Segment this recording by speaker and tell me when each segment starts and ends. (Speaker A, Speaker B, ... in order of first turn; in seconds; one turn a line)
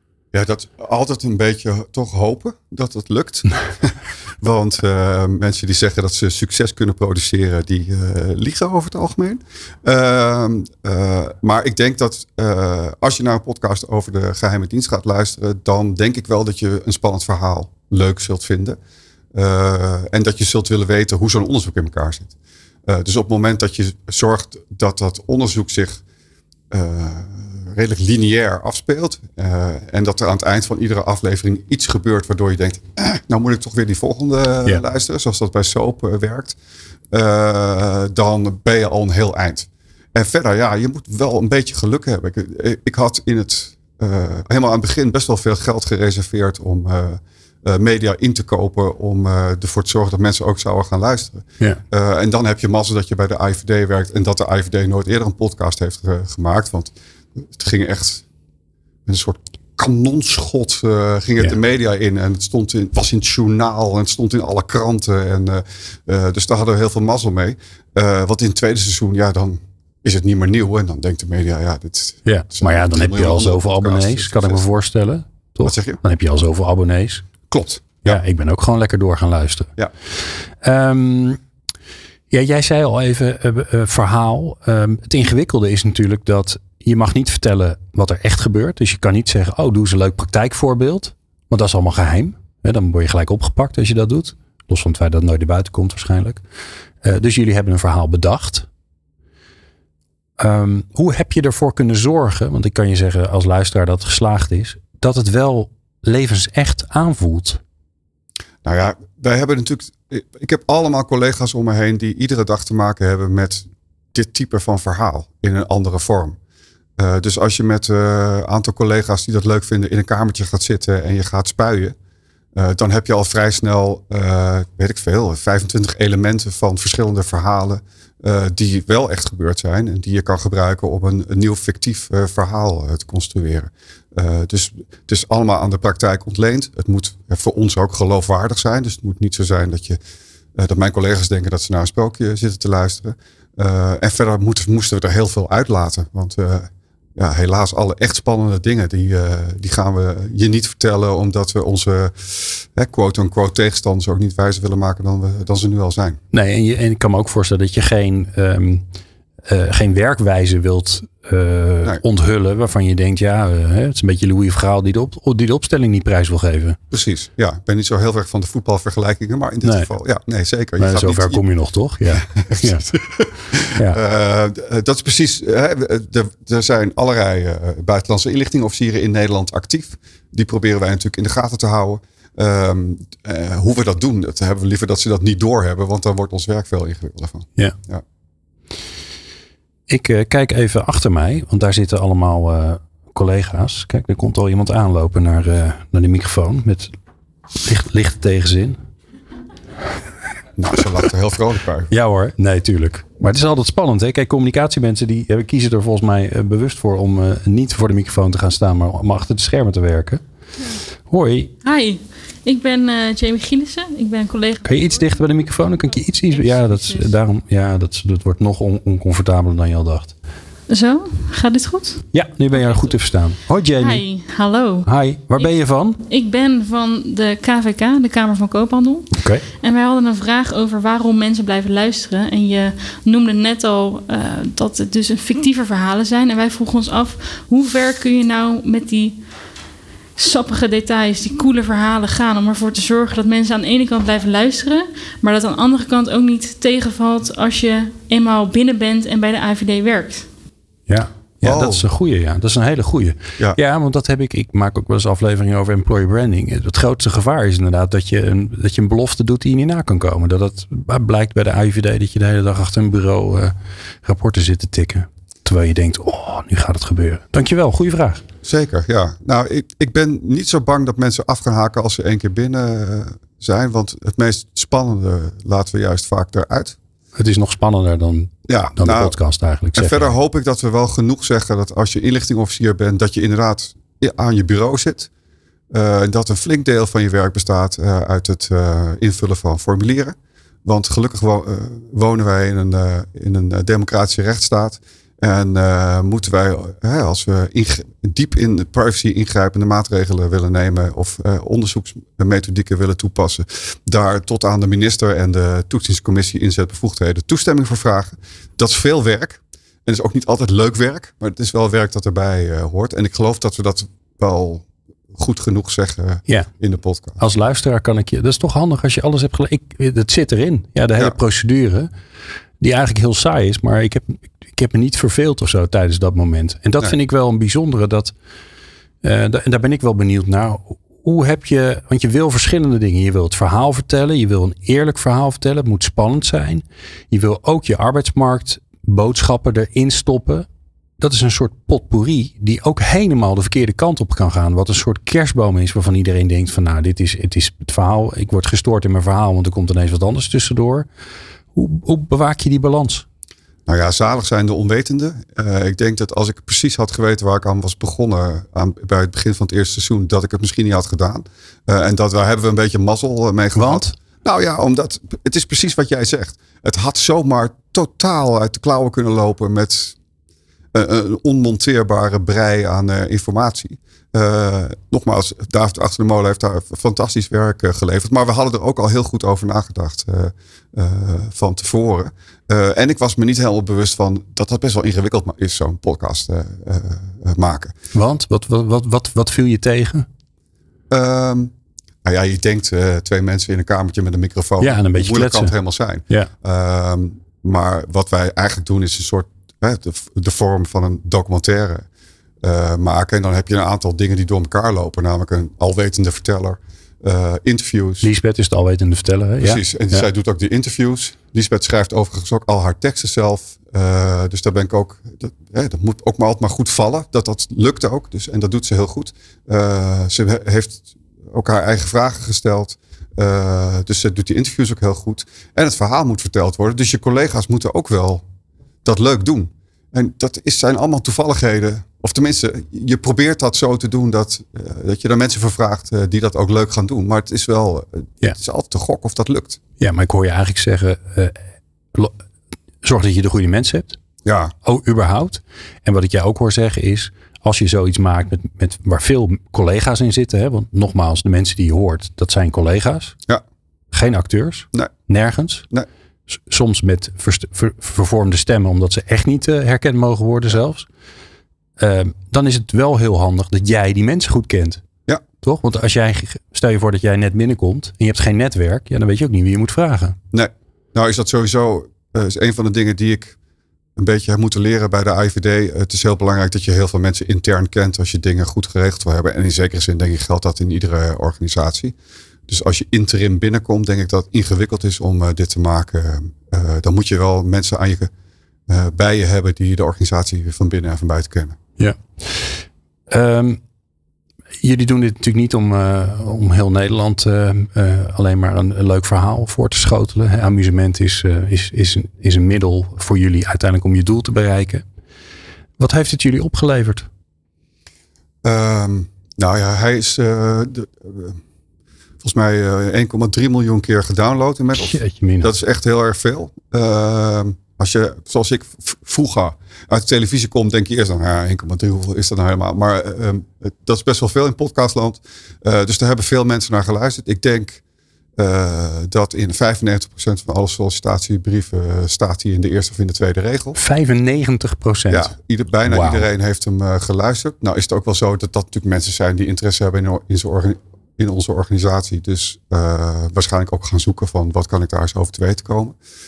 Speaker A: 0.3-18.8
Speaker A: 19.3-22.3
Speaker A: 22.9-26.0
Speaker A: 26.7-36.6
Speaker A: 37.1-56.9
Speaker A: 57.5-58.2
Speaker A: 59.1-74.6
Speaker B: 72.2-77.2
Speaker A: 75.6-76.0
Speaker A: 77.5-78.2
Speaker B: 78.0-79.7
Speaker B: 80.2-81.4
Speaker B: 82.3-96.4
Speaker B: 97.0-98.7
Speaker B: 100.4-107.6
Speaker A: 108.6-116.4
Speaker A: 117.0-122.0
Speaker A: 122.5-140.0
Speaker A: 140.6-156.2
Speaker B: 156.3-158.8
Speaker B: 159.5-166.8
Speaker A: 166.9-171.4
Speaker B: 169.6-169.9
Speaker B: 170.8-172.9
Speaker A: 172.1-188.0
Speaker B: 173.7-174.0
Speaker B: 189.9-196.9
Speaker B: 197.6-198.8
Speaker A: 200.6-201.9
Speaker B: 201.9-210.2
Speaker B: 211.1-211.5
Speaker C: 211.6-215.0
Speaker B: 214.6-220.1
Speaker C: 216.3-217.1
Speaker C: 220.7-222.9
Speaker B: 222.1-224.0
Speaker C: 223.8-225.6
Speaker B: 224.8-226.0
Speaker C: 226.1-229.1
Speaker B: 229.2-229.4
Speaker C: 229.6-239.2
Speaker C: 240.2-250.3
Speaker B: 250.9-268.2
Speaker A: 251.4-251.9
Speaker A: 268.4-276.8
Speaker B: 277.2-280.1
Speaker A: 278.5-279.2
Speaker A: 279.8-285.1
Speaker A: 285.7-317.2
Speaker B: 317.2-321.9
Speaker B: 322.6-328.1
Speaker B: 329.0-340.5
Speaker B: 341.0-350.9
Speaker B: 351.6-353.1
Speaker A: 353.7-370.0
Speaker B: 363.6-363.9
Speaker A: 370.7-387.8
Speaker B: 387.9-390.1
Speaker A: 390.9-391.5
Speaker A: 392.1-401.9
Speaker B: 394.6-395.5
Speaker A: 402.4-408.1
Speaker B: 408.0-410.1
Speaker A: 409.4-428.2
Speaker A: 428.9-439.6
Speaker B: 439.8-441.4
Speaker B: 442.8-444.0
Speaker A: 444.2-444.5
Speaker B: 444.6-453.2
Speaker B: 453.9-455.6
Speaker B: 456.3-460.9
Speaker B: 461.8-464.8
Speaker B: 465.4-470.2
Speaker A: 470.3-473.4
Speaker A: 474.0-481.9
Speaker A: 482.5-488.1
Speaker A: 488.7-491.6
Speaker B: 491.8-493.6
Speaker B: 494.6-504.8
Speaker B: 505.8-507.1
Speaker A: 508.4-511.4
Speaker A: 512.2-527.8
Speaker B: 514.8-515.5
Speaker A: 528.4-533.8
Speaker B: 533.8-536.3
Speaker A: 535.1-546.0